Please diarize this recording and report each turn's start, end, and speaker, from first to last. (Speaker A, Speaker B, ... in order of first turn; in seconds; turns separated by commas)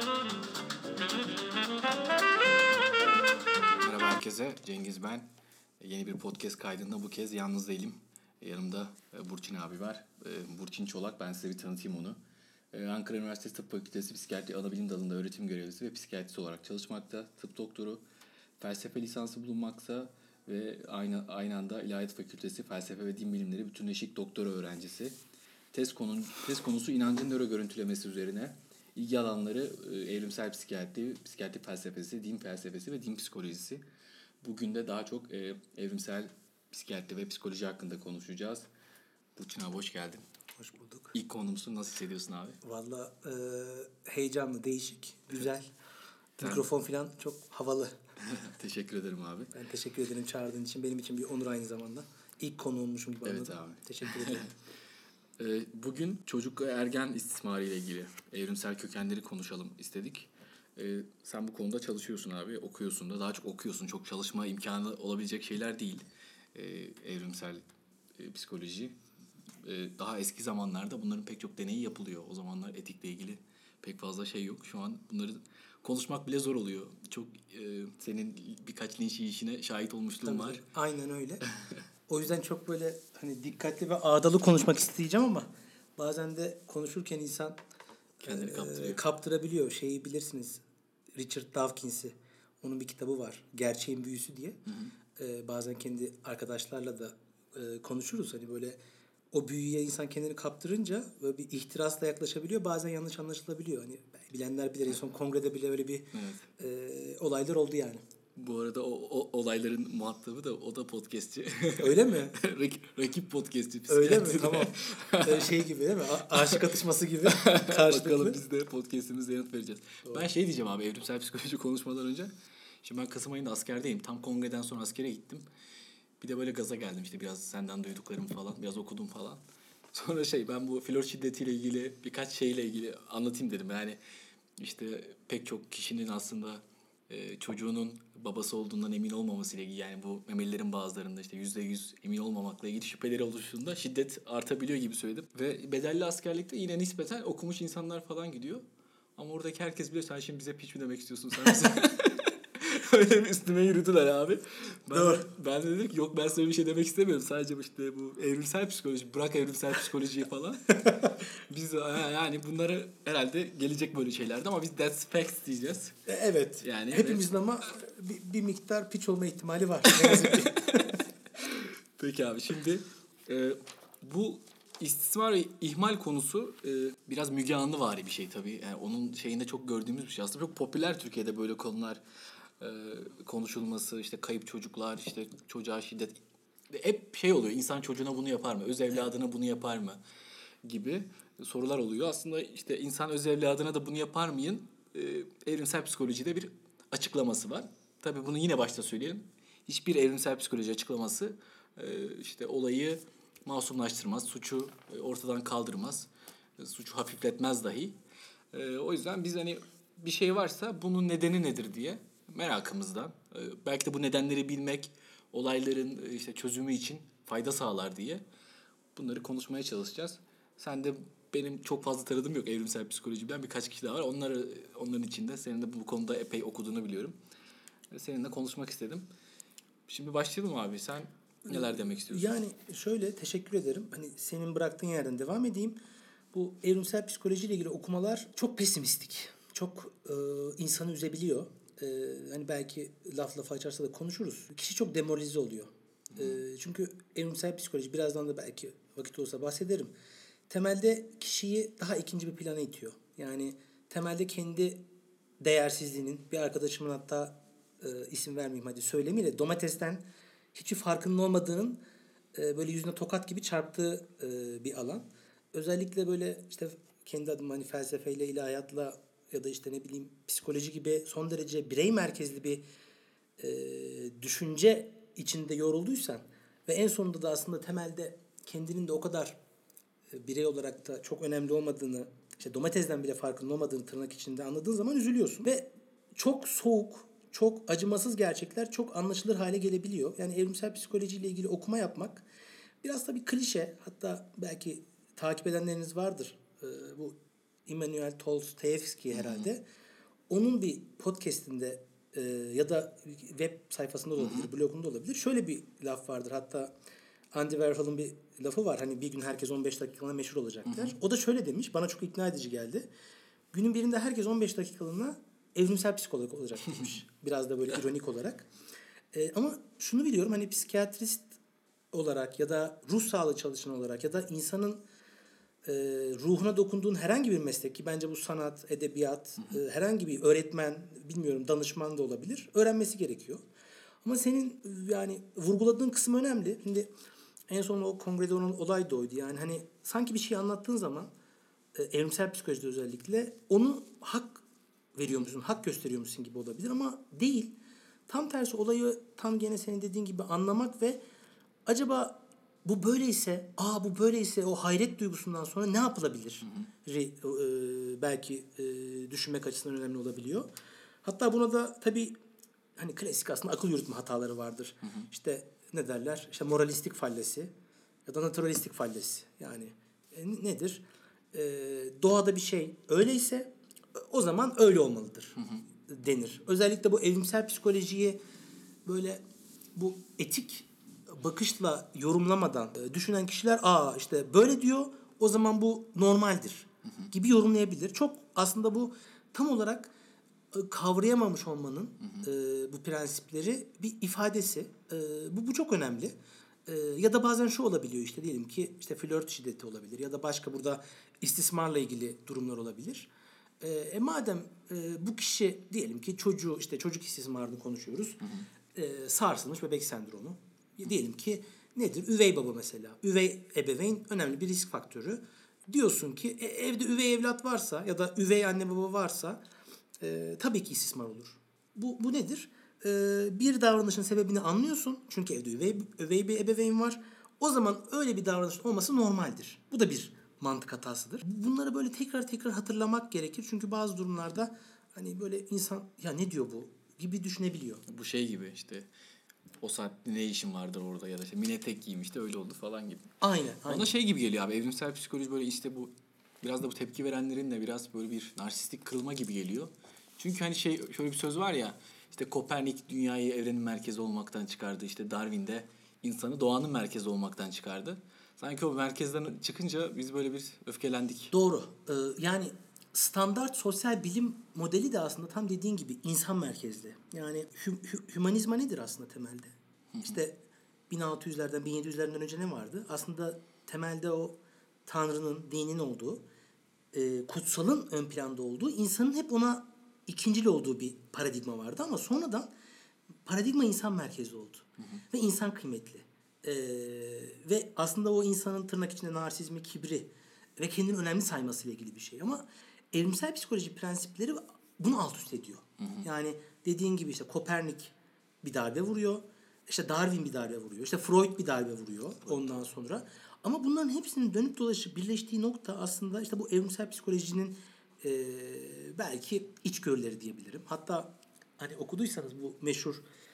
Speaker A: 3.8-5.3, Speaker A: 5.8-12.2, Speaker A: 12.7-18.0, Speaker A: 18.6-25.2, Speaker A: 25.7-33.8, Speaker A: 34.4-38.7, Speaker A: 39.4-40.2, Speaker B: 40.6-41.1, Speaker A: 41.1-42.6, Speaker B: 42.6-45.7, Speaker B: 46.4-47.9, Speaker A: 46.4-46.7, Speaker A: 48.2-49.5, Speaker B: 49.5-54.5, Speaker A: 53.2-54.5, Speaker A: 55.4-67.6, Speaker A: 68.2-68.9, Speaker A: 69.6-80.6, Speaker B: 80.2-81.4, Speaker B: 82.1-87.6, Speaker B: 88.2-90.6, Speaker A: 88.2-89.0, Speaker B: 91.2-94.6, Speaker A: 94.7-94.9, Speaker B: 95.2-98.8, Speaker B: 99.3-108.0, Speaker A: 106.1-106.5, Speaker A: 108.4-115.5, Speaker B: 111.8-112.4, Speaker B: 113.9-118.4, Speaker A: 116.3-116.6, Speaker A: 117.3-122.3, Speaker A: 122.8-125.4, Speaker A: 126.2-129.4, Speaker A: 129.9-134.0, Speaker A: 134.6-148.6, Speaker A: 149.2-165.9, Speaker B: 154.9-155.3, Speaker B: 166.1-171.0, Speaker A: 166.6-167.2, Speaker A: 169.9-170.8, Speaker A: 171.3-182.0, Speaker A: 182.6-186.2, Speaker A: 186.7-190.0, Speaker A: 190.6-208.0, Speaker A: 208.5-218.2, Speaker A: 219.0-227.2, Speaker A: 227.9-229.1, Speaker A: 229.9-232.3, Speaker B: 231.5-235.8, Speaker B: 236.3-249.9, Speaker A: 246.1-246.4, Speaker B: 250.5-254.8, Speaker B: 255.4-261.8, Speaker B: 262.3-272.6, Speaker B: 273.4-279.4, Speaker B: 280.1-292.3, Speaker B: 292.8-299.6, Speaker A: 299.1-299.5, Speaker B: 300.3-306.7, Speaker A: 304.2-304.5, Speaker B: 307.3-312.9, Speaker A: 310.7-310.9, Speaker B: 313.5-318.5, Speaker B: 319.1-321.4, Speaker B: 321.9-324.8, Speaker B: 325.6-333.4, Speaker B: 334.0-336.9, Speaker B: 337.5-341.1, Speaker B: 341.8-344.4, Speaker B: 344.9-351.0, Speaker B: 351.7-360.5, Speaker A: 356.4-356.7, Speaker B: 361.0-362.2, Speaker B: 362.8-367.5, Speaker A: 364.8-365.1, Speaker B: 368.1-378.2, Speaker B: 378.9-379.2, Speaker B: 379.8-389.9, Speaker B: 390.5-408.2, Speaker A: 408.2-408.5, Speaker B: 408.7-419.4, Speaker B: 420.0-437.8, Speaker A: 437.9-438.9, Speaker A: 439.6-443.1, Speaker B: 443.2-443.9, Speaker A: 443.6-461.3, Speaker B: 461.3-470.4, Speaker A: 469.9-470.2, Speaker B: 470.9-476.2, Speaker B: 476.9-482.5, Speaker B: 483.2-513.0, Speaker A: 495.8-496.1, Speaker A: 502.2-502.6